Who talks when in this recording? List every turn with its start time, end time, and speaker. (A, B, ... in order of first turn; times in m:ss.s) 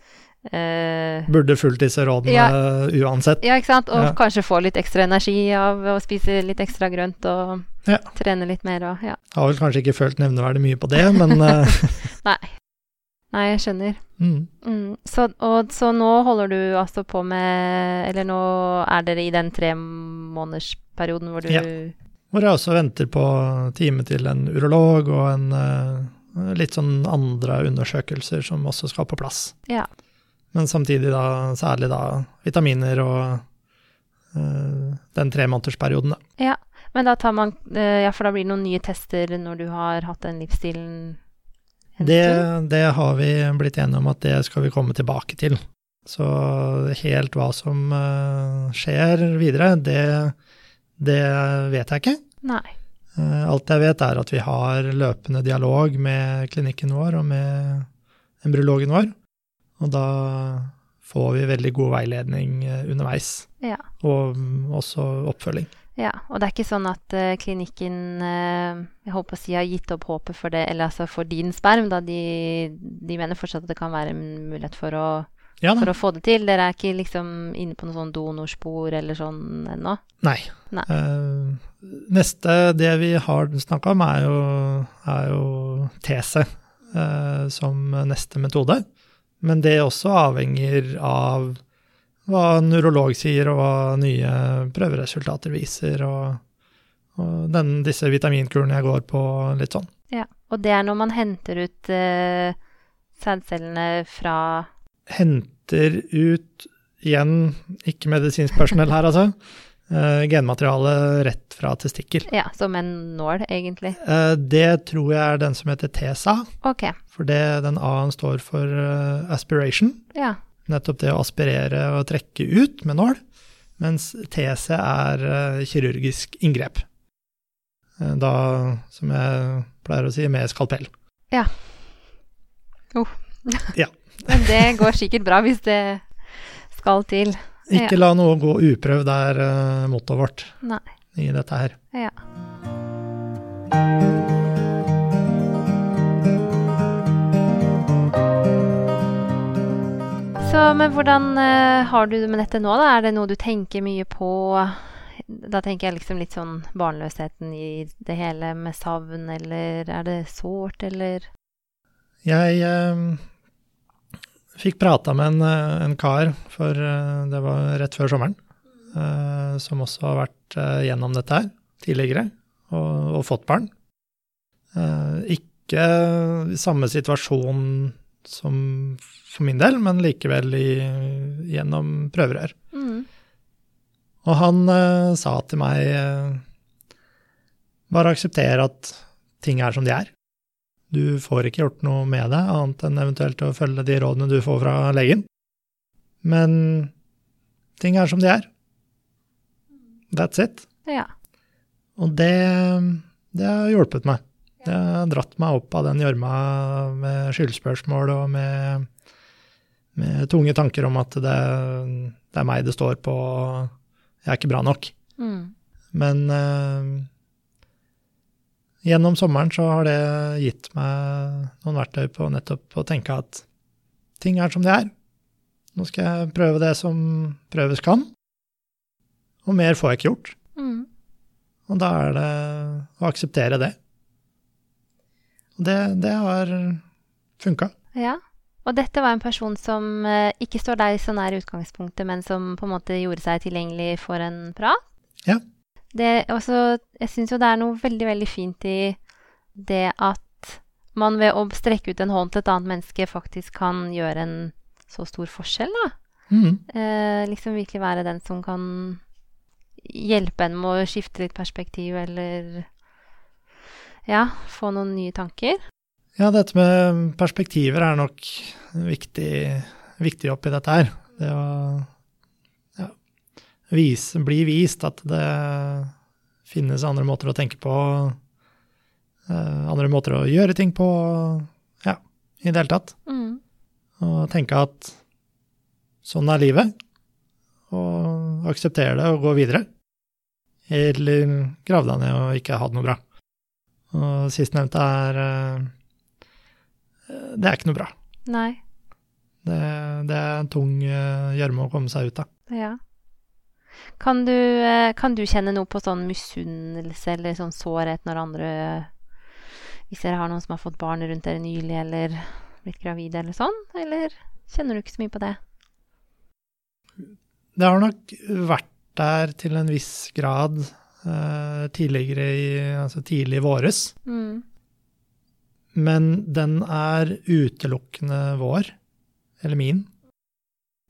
0:00.4-0:01.3 A
0:01.3-0:04.2 B
0:02.2-0:02.5 A
0:03.4-0:09.2 A
0:09.3-0:12.1 B
0:11.3-0:12.5 A
0:13.3-0:14.0 A
0:14.2-0:14.5 B
0:14.6-0:21.9 A
0:22.3-0:29.5 B
0:30.5-0:33.4 B
0:34.3-0:36.2 B
0:36.4-0:41.2 A
0:42.0-0:42.5 A
0:42.0-0:50.3 B
0:51.0-0:52.2 B
0:52.4-0:52.7 A
0:53.2-0:57.9 B
0:58.4-0:59.1 B
0:59.8-1:03.5 B
1:04.0-1:05.7 B
1:06.0-1:20.0 A
1:15.6-1:15.9 B
1:20.2-1:28.8 B
1:29.4-1:31.6 B
1:32.3-1:36.4 B
1:37.1-1:39.9 B
1:40.1-1:42.6 A
1:43.2-1:44.7 A
1:45.1-1:49.4 B
1:49.9-1:52.3 B
1:52.3-1:54.0 A
1:54.0-1:56.5 B
1:56.6-1:57.0 A
1:57.1-2:00.0 B
2:00.7-2:03.2 B
2:03.8-2:06.8 B
2:08.0-2:10.9 B
2:12.9-2:18.0 A
2:13.7-2:14.8 B
2:17.7-2:20.6 B
2:21.1-2:21.8 B
2:30.4-2:41.3 A
2:42.2-2:43.2 B
2:44.6-2:48.4 B
2:48.9-2:53.7 B
2:54.7-3:02.5 B
3:02.7-3:03.1 A
3:04.2-3:06.4 B
3:07.9-3:10.1 B
3:10.9-3:15.2 B
3:16.2-3:16.9 B
3:17.8-3:18.5 B
3:20.1-3:20.6 B
3:22.0-3:28.9 B
3:29.9-3:33.7 B
3:34.2-3:34.9 B
3:35.2-3:35.5 A
3:35.9-3:37.1 B
3:38.8-3:43.4 B
3:44.2-3:44.9 B
3:45.7-3:48.1 B
3:49.4-3:50.4 B
3:50.6-3:50.9 A
3:51.7-3:53.8 B
3:55.6-3:56.8 B
3:57.4-3:57.7 B
3:57.9-4:04.8 A
4:05.9-4:09.0 A
4:09.6-4:15.9 A
4:16.3-4:16.6 B
4:16.7-4:19.0 A
4:19.8-4:22.7 A
4:24.0-4:25.6 A
4:26.2-4:31.9 B
4:33.7-4:35.9 B
4:36.5-4:38.2 B
4:39.3-4:42.9 B
4:43.1-4:43.4 A
4:44.0-4:45.0 B
4:46.0-4:46.7 B
4:47.7-4:49.6 B
4:50.7-4:53.0 B
4:53.9-4:55.7 B
4:57.1-4:57.9 B
4:58.2-4:58.6 A
4:59.4-5:02.3 B
5:02.5-5:02.8 A
5:04.0-5:08.9 A
5:09.9-5:15.4 A
5:17.6-5:23.9 B
5:24.0-5:24.4 A
5:25.7-5:28.7 B
5:29.4-5:29.9 B